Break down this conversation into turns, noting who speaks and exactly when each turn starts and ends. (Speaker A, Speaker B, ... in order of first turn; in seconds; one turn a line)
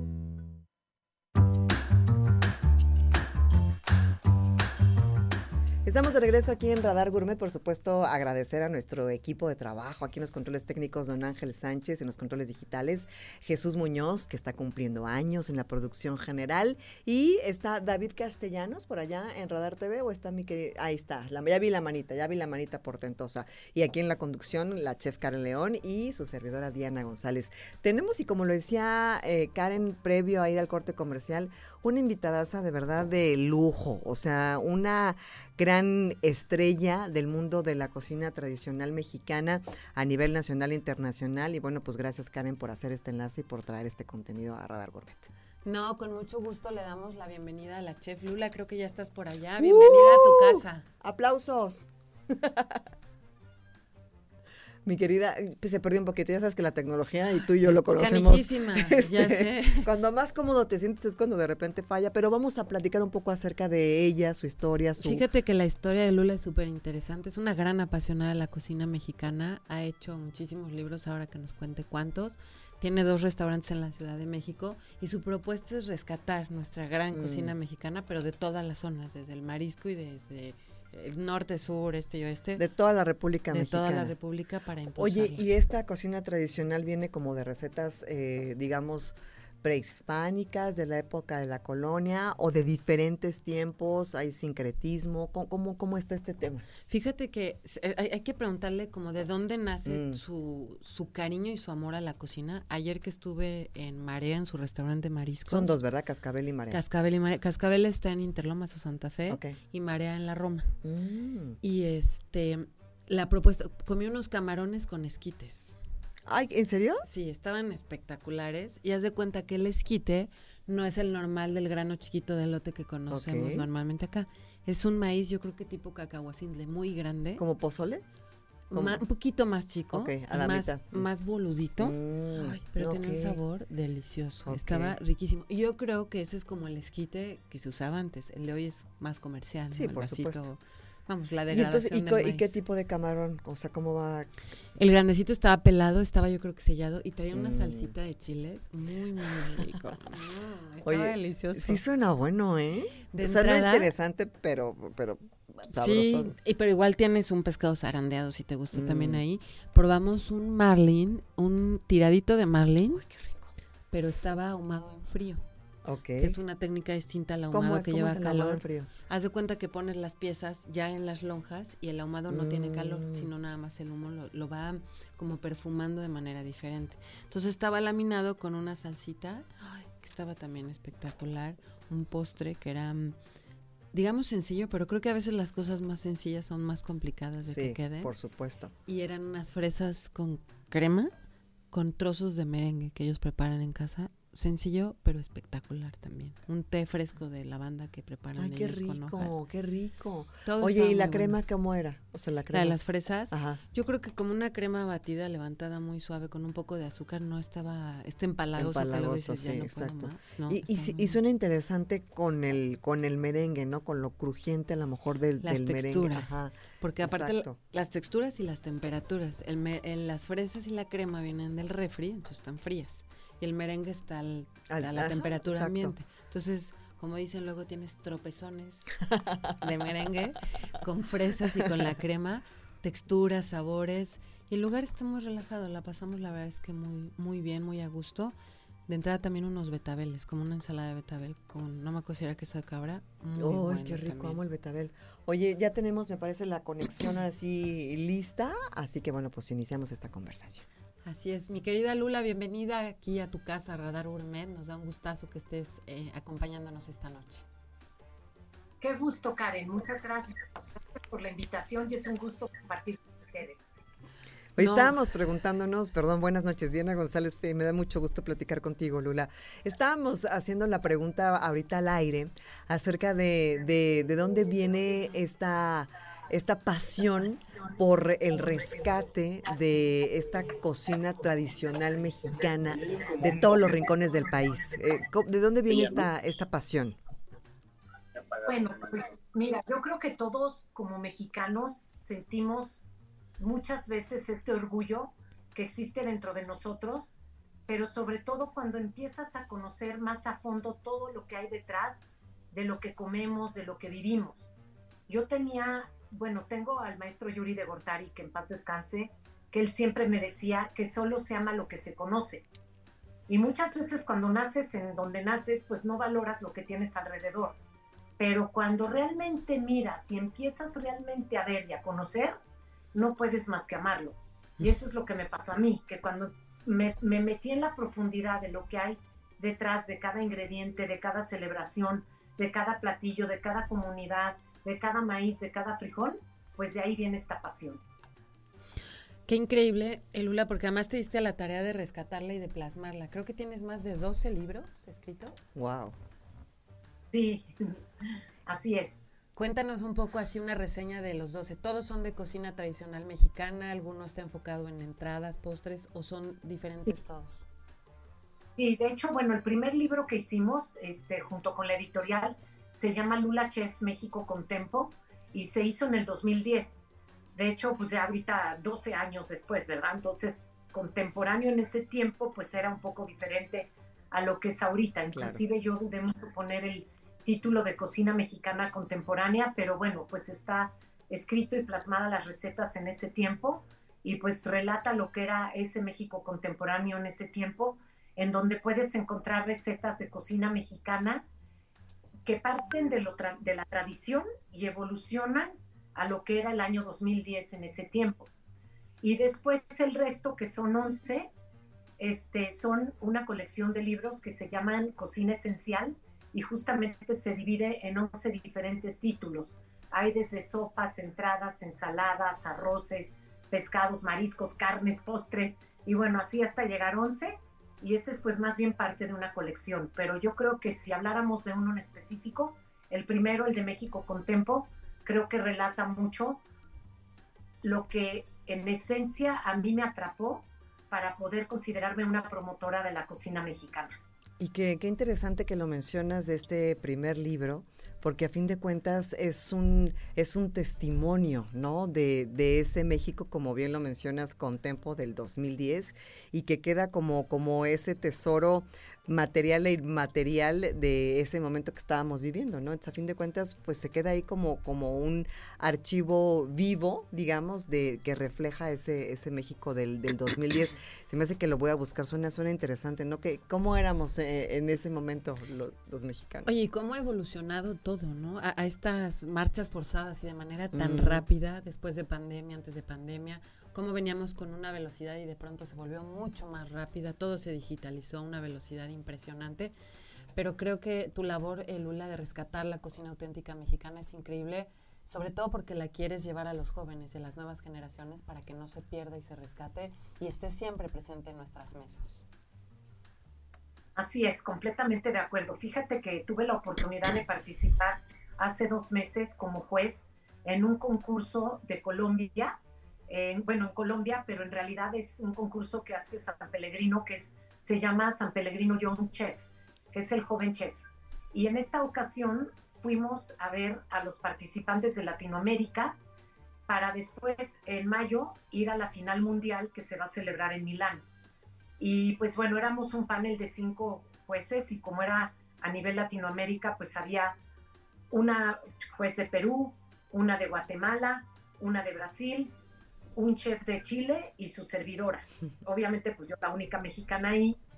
Speaker A: 5.8-45.3
Speaker B: 45.6-50.8
Speaker A: 49.6-52.8
Speaker A: 54.8-65.2
Speaker B: 57.6-59.9
Speaker B: 65.0-82.6
Speaker A: 77.1-77.5
Speaker A: 82.6-84.1
Speaker B: 83.5-85.5
Speaker A: 85.0-96.6
Speaker B: 96.9-105.8
Speaker A: 99.8-100.2
Speaker A: 105.5-106.8
Speaker B: 106.7-110.7
Speaker A: 109.3-109.6
Speaker A: 110.8-111.6
Speaker B: 111.6-115.8
Speaker A: 116.2-117.0
Speaker B: 117.0-127.4
Speaker A: 123.1-123.7
Speaker A: 127.4-128.0
Speaker B: 128.7-142.6
Speaker A: 128.7-129.0
Speaker A: 129.9-131.1
Speaker A: 131.8-133.4
Speaker A: 134.5-134.9
Speaker A: 139.7-140.5
Speaker A: 141.5-144.3
Speaker B: 144.8-151.8
Speaker A: 147.3-147.9
Speaker A: 149.3-149.8
Speaker A: 150.8-156.3
Speaker B: 153.1-153.9
Speaker B: 155.7-163.0
Speaker A: 158.7-159.2
Speaker A: 162.9-163.5
Speaker B: 163.9-165.4
Speaker A: 165.8-166.4
Speaker B: 166.2-183.2
Speaker A: 167.5-168.9
Speaker A: 172.3-173.3
Speaker B: 183.9-188.1
Speaker A: 187.4-188.7
Speaker B: 188.8-191.1
Speaker B: 191.7-199.3
Speaker A: 198.3-202.8
Speaker B: 200.5-201.4
Speaker B: 202.5-211.2
Speaker A: 203.3-203.6
Speaker A: 208.6-217.6
Speaker B: 215.4-229.0
Speaker A: 224.7-225.9
Speaker A: 229.1-229.5
Speaker B: 229.6-238.3
Speaker B: 238.9-244.4
Speaker A: 243.4-250.7
Speaker B: 251.0-257.4
Speaker C: 258.8-260.4
Speaker C: 260.9-263.7
Speaker A: 264.6-287.0
Speaker B: 264.6-265.0
Speaker C: 288.4-292.8
Speaker C: 293.4-297.1
Speaker C: 297.7-304.5
Speaker C: 305.1-312.4
Speaker C: 313.3-317.6
Speaker C: 318.2-322.4
Speaker C: 322.9-337.8
Speaker B: 339.3-345.4
Speaker A: 345.5-345.9
Speaker C: 347.1-347.8
Speaker C: 348.4-349.0
Speaker B: 349.4-357.4
Speaker C: 358.6-366.8
Speaker C: 367.4-391.3
Speaker A: 375.1-375.4
Speaker C: 392.2-398.3
Speaker C: 399.0-401.3
Speaker C: 402.0-426.4
Speaker C: 427.6-433.9
Speaker A: 434.4-466.5
Speaker B: 466.4-479.7
Speaker A: 470.7-471.2
Speaker B: 480.4-492.3
Speaker C: 493.9-510.8
Speaker C: 511.3-516.0
Speaker C: 516.7-521.0
Speaker C: 521.8-527.4
Speaker C: 528.1-532.5
Speaker C: 533.1-537.6